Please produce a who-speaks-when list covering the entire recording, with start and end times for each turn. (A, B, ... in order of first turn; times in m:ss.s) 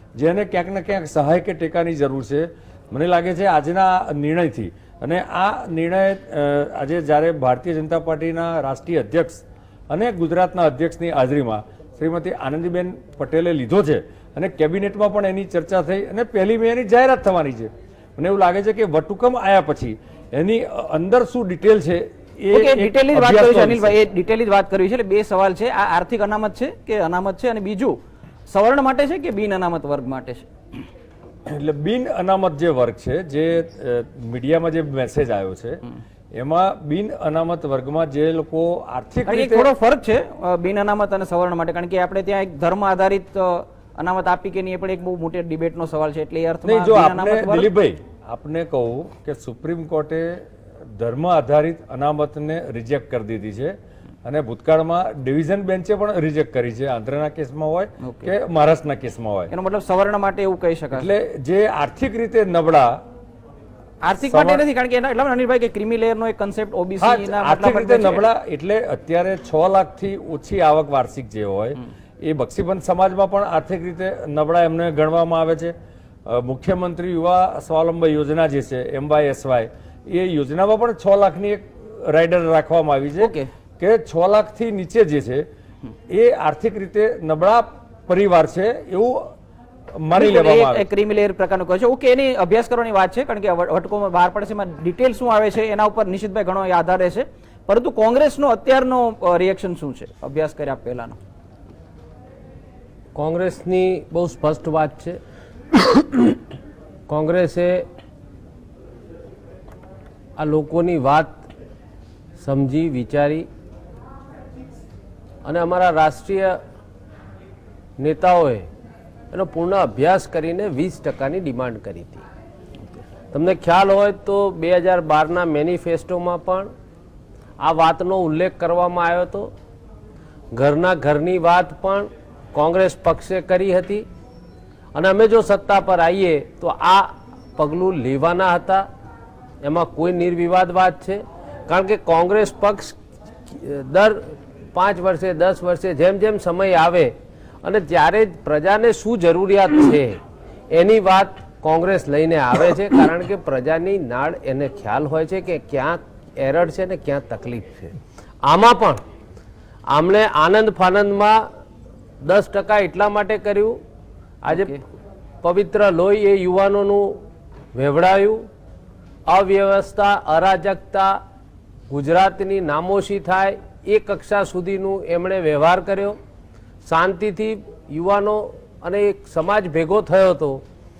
0:00.2-0:24.0 A
0:22.5-0:28.0 B
0:28.5-0:30.4 B
0:31.5-0:35.8 A
0:36.3-0:39.7 A
0:39.2-0:47.7 B
0:46.6-0:50.4 A
0:51.0-0:59.5 A
0:58.0-0:58.3 B
0:59.5-1:01.1 B
1:00.9-1:03.0 A
1:04.0-1:08.2 B
1:04.2-1:04.6 A
1:07.0-1:15.7 A
1:16.2-1:25.4 A
1:23.2-1:23.5 B
1:26.1-1:29.3 A
1:30.0-1:30.8 A
1:30.1-1:41.2 B
1:43.2-1:45.2 C
1:47.1-1:47.8 C
1:50.4-1:51.4 C
1:52.4-1:53.5 C
1:55.4-1:56.6 C
1:58.0-1:58.7 C
1:59.3-2:02.2 C
2:03.3-2:06.7 C
2:07.6-2:09.5 C
2:10.5-2:14.0 C
2:14.9-2:18.9 C
2:19.6-2:23.0 C
2:23.5-2:27.1 C
2:27.6-2:30.2 C
2:30.7-2:37.9 C
2:38.4-2:39.0 C
2:39.9-2:41.5 C
2:42.2-2:43.8 C
2:44.4-2:44.8 C
2:44.5-2:44.8 B
2:45.4-2:47.2 C
2:47.7-2:48.4 C
2:49.3-2:51.2 C
2:51.9-2:56.2 C
2:56.8-3:00.6 C